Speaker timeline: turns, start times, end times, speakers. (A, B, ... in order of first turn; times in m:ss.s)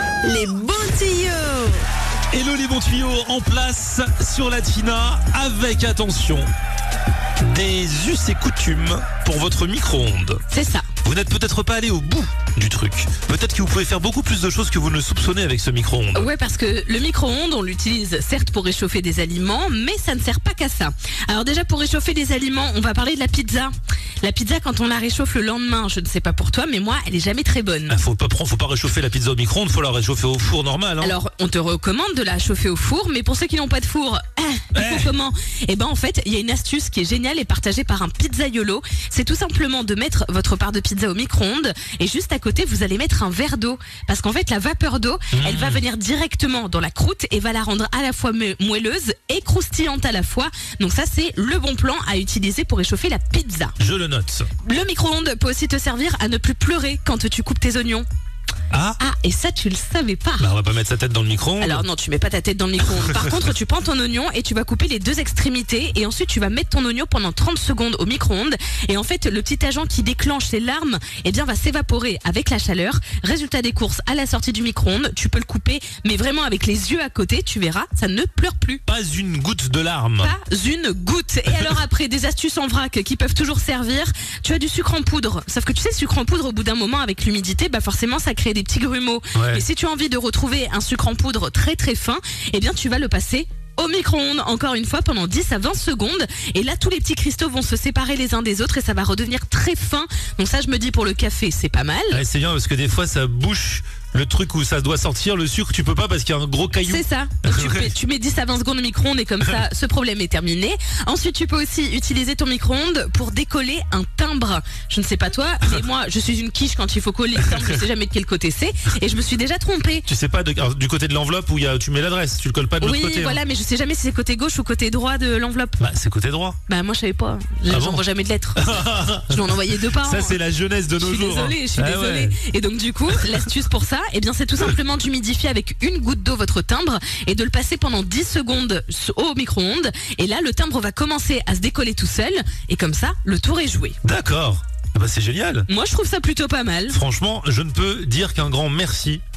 0:00.2-0:01.8 A
0:02.3-0:06.5 B
0:07.4-0:10.4 B
0:10.5-0:10.9 A
0:11.0-0:16.3 B
0:16.1-0:27.9 A
0:27.9-0:31.1 B
0:31.0-0:53.7 A
0:34.7-0:35.1 B
0:45.3-0:45.8 B
0:53.8-0:54.5 B
0:54.6-0:58.0 A
0:58.7-0:59.0 B
0:59.0-1:00.5 A
1:00.4-1:01.8 B
1:01.6-1:18.8 A
1:03.0-1:03.3 B
1:18.9-1:20.3 B
1:20.2-1:42.2 A
1:29.3-1:29.6 B
1:42.1-1:47.9 B
1:46.8-2:00.0 A
1:57.4-1:57.8 B
2:00.0-2:03.4 B
2:02.8-2:05.8 A
2:05.8-2:06.6 B
2:06.7-2:10.4 A
2:07.7-2:08.0 B
2:08.6-2:12.4 B
2:10.9-2:24.0 A
2:24.0-2:25.7 B
2:25.7-2:27.0 A
2:26.9-2:29.2 B